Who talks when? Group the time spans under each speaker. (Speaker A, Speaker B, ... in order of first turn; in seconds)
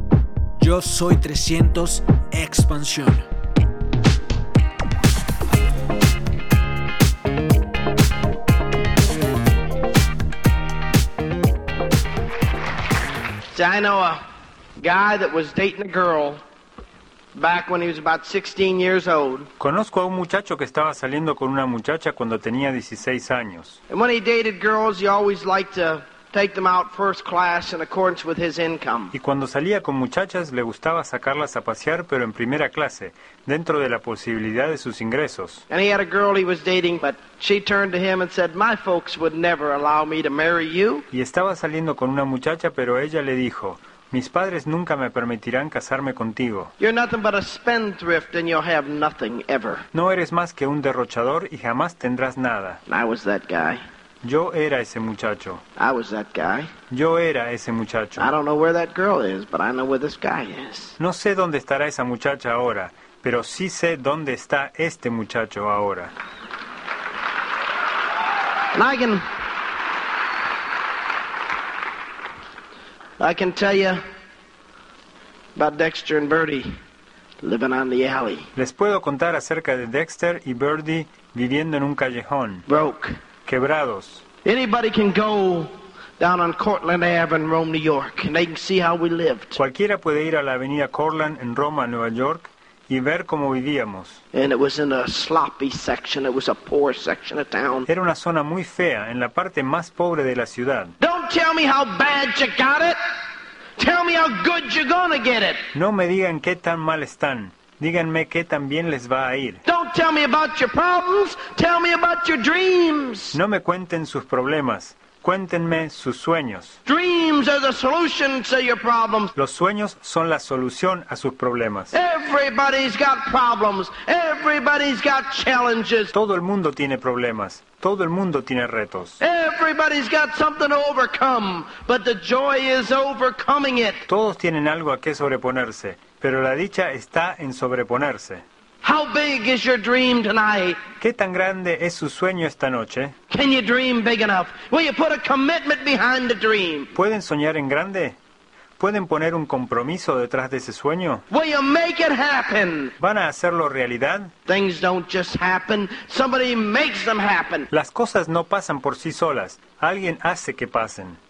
Speaker A: 0.6-3.2
Speaker B: 13.5-14.2, 14.8-16.4, 17.3-19.5, 23.9-29.1, 35.7-41.0, 46.8-49.9, 52.9-53.8, 55.8-56.7, 58.2-61.0, 68.7-69.2, 73.2-74.0, 75.5-76.7, 77.4-78.5, 82.7-83.2, 84.4-89.6, 94.3-97.9, 101.0-103.0, 103.8-105.7, 109.7-113.4, 116.9-119.3, 121.9-126.1, 129.2-134.1, 138.8-140.8, 143.3-146.9, 151.3-152.9, 154.5-157.7
Speaker C: 19.6-23.8, 29.1-35.6, 41.1-46.7, 49.9-52.8, 54.2-55.6, 56.9-58.3, 61.0-66.1, 78.6-82.7, 83.5-84.2, 89.6-94.2, 97.9-100.9, 105.7-109.6, 113.3-116.8, 119.4-121.9, 126.1-129.2, 134.1-138.4, 141.0-143.2, 146.9-148.2, 148.8-151.2, 153.0-154.3, 157.7-161.2